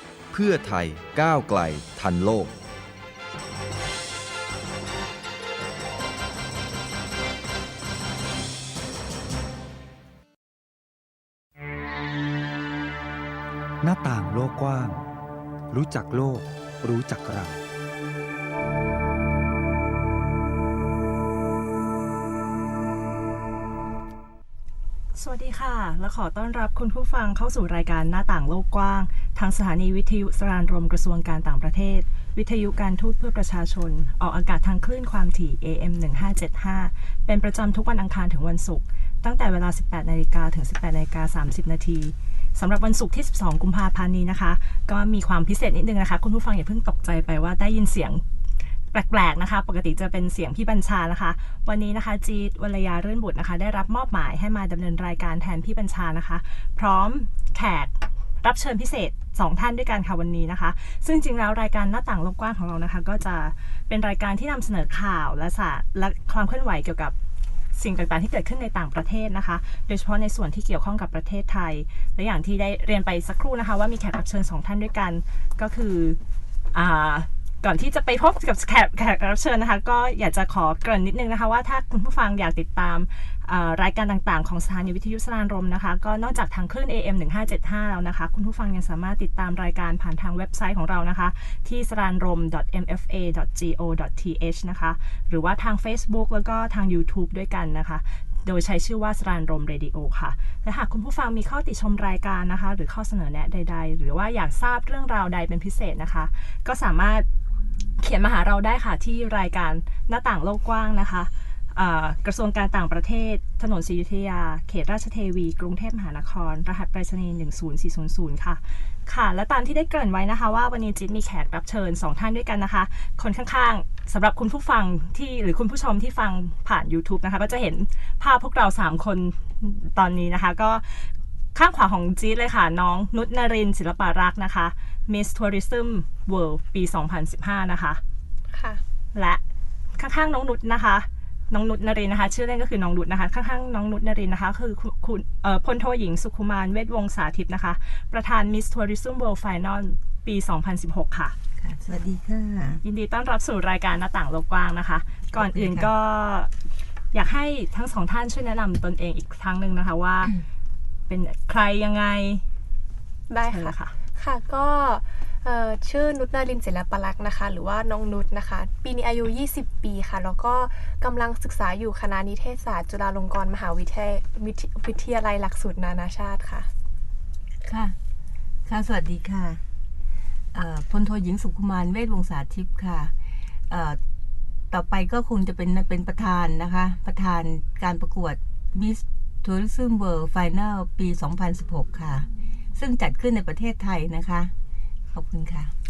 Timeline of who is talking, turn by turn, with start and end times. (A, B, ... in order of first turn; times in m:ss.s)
0:00.3-0:02.6 A
0:13.8-0:14.9 B
0:13.8-0:14.9 A
0:15.7-0:17.5 A
0:15.7-0:17.6 B
0:25.2-0:48.2 C
0:48.9-1:07.2 C
1:07.7-1:16.2 C
1:16.7-1:47.3 C
1:48.0-2:18.0 C
2:18.5-2:18.8 D
2:19.1-2:19.4 C
2:20.0-2:31.4 C
2:31.6-2:32.8 E
2:32.8-2:36.5 C
2:35.4-2:35.9 E
2:37.1-2:40.3 C
2:41.1-2:42.4 C
2:43.3-2:56.7 D
2:43.5-2:43.9 C
2:57.7-2:58.0 E
2:58.7-2:59.6 E
3:00.5-3:03.1 E
3:03.7-3:04.0 E
3:04.7-3:14.5 E
3:15.1-3:15.7 E